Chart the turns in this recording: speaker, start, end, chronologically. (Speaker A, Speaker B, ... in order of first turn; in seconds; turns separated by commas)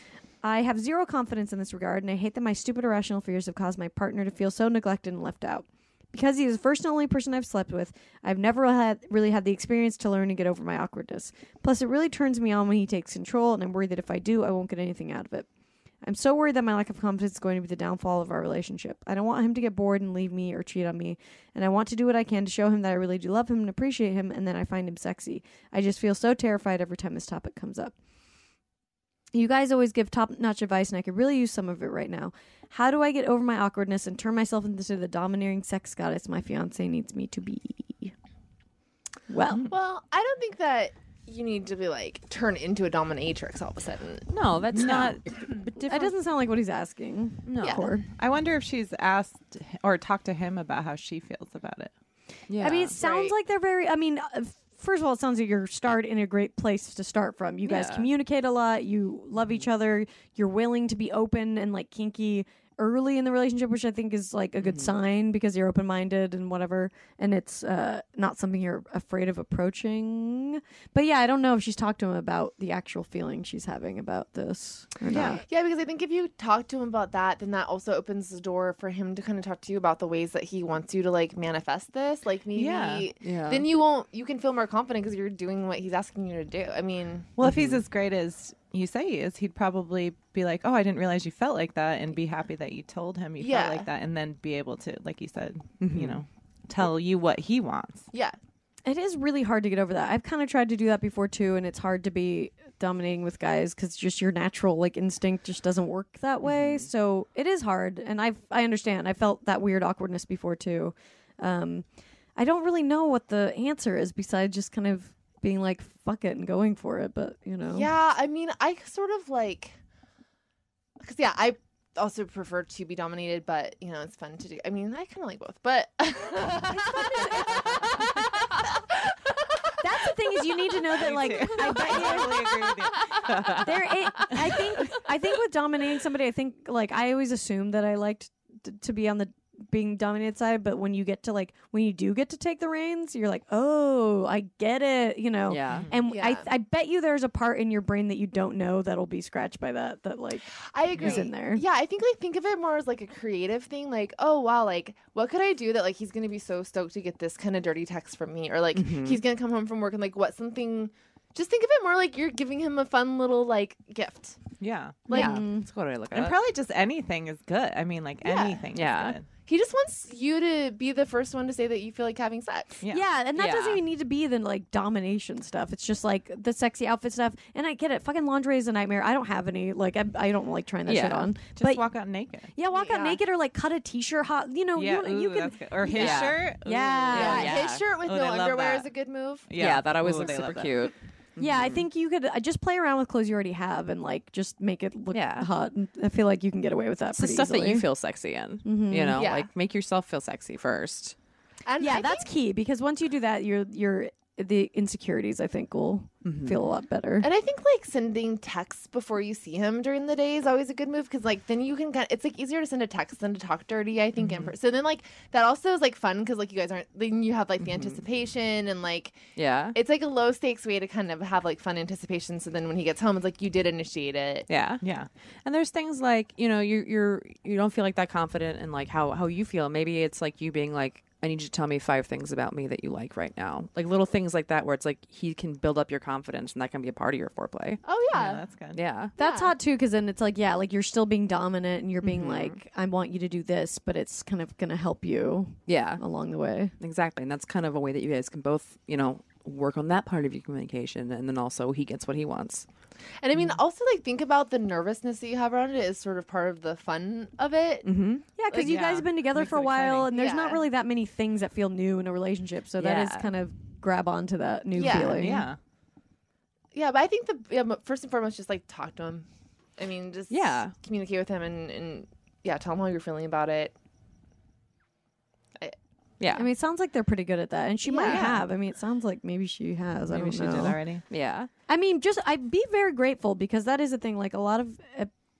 Speaker A: 0.4-15.5, Speaker A: 16.0-27.9, Speaker A: 29.3-38.1, Speaker A: 39.3-39.7, Speaker B: 39.7-44.3, Speaker C: 44.3-46.1, Speaker D: 44.7-45.2, Speaker A: 45.8-48.0, Speaker C: 47.4-47.9, Speaker B: 47.6-47.8, Speaker D: 48.2-51.9, Speaker C: 52.5-52.9, Speaker A: 52.6-75.4, Speaker B: 53.0-53.4, Speaker C: 57.6-58.1, Speaker C: 64.6-64.9, Speaker D: 75.1-75.4, Speaker B: 75.5-87.3, Speaker D: 82.5-83.1, Speaker C: 83.2-83.7, Speaker D: 87.3-98.1, Speaker C: 87.4-87.8, Speaker B: 93.4-93.8, Speaker C: 95.8-96.2, Speaker B: 98.1-98.4, Speaker A: 98.8-117.9, Speaker C: 106.4-106.9, Speaker B: 117.7-119.8, Speaker B: 121.0-128.9, Speaker A: 126.7-128.1, Speaker A: 129.8-132.4, Speaker D: 130.9-134.3, Speaker B: 131.5-133.7, Speaker A: 133.6-151.6, Speaker B: 134.2-134.9, Speaker C: 145.5-145.9, Speaker B: 146.1-146.5, Speaker B: 150.7-164.4, Speaker C: 158.7-159.2, Speaker D: 164.6-165.1, Speaker B: 165.1-165.3, Speaker A: 165.1-165.7, Speaker C: 165.1-166.4, Speaker D: 166.1-169.2, Speaker B: 168.2-168.6, Speaker C: 168.7-169.2, Speaker B: 169.5-172.8, Speaker A: 172.9-181.8, Speaker C: 173.3-173.8, Speaker C: 180.8-181.3, Speaker D: 181.6-182.5, Speaker A: 182.5-187.6, Speaker B: 182.7-183.2, Speaker D: 184.8-188.9, Speaker C: 185.9-186.4, Speaker C: 187.1-187.9, Speaker B: 187.1-189.5, Speaker D: 189.5-190.9, Speaker C: 189.6-191.9, Speaker A: 191.4-197.9, Speaker C: 195.1-195.5, Speaker C: 197.1-201.1, Speaker A: 198.6-199.2, Speaker B: 199.1-199.5, Speaker B: 201.7-202.3, Speaker A: 201.8-207.3, Speaker C: 206.2-206.6, Speaker B: 207.2-219.2, Speaker C: 217.6-218.0, Speaker C: 219.3-219.8, Speaker B: 219.7-224.5, Speaker C: 224.5-224.8, Speaker D: 224.8-225.1, Speaker C: 225.4-237.8, Speaker B: 237.8-238.4, Speaker D: 238.1-238.8, Speaker C: 238.7-239.1, Speaker B: 239.2-239.5, Speaker A: 239.2-246.7, Speaker C: 242.0-242.6, Speaker C: 245.7-246.0, Speaker C: 246.8-252.7, Speaker B: 253.2-257.9, Speaker C: 257.8-258.2, Speaker A: 258.4-265.4, Speaker D: 258.5-260.1, Speaker B: 260.1-260.6, Speaker C: 262.8-263.3, Speaker B: 264.7-265.4, Speaker D: 264.9-265.6, Speaker C: 265.1-265.5, Speaker B: 266.7-273.7, Speaker C: 270.3-270.7, Speaker C: 276.2-276.5, Speaker A: 276.3-280.8, Speaker B: 277.9-278.2, Speaker C: 278.0-278.4, Speaker D: 278.1-278.4, Speaker D: 280.1-281.0, Speaker C: 281.1-281.5, Speaker A: 281.7-285.1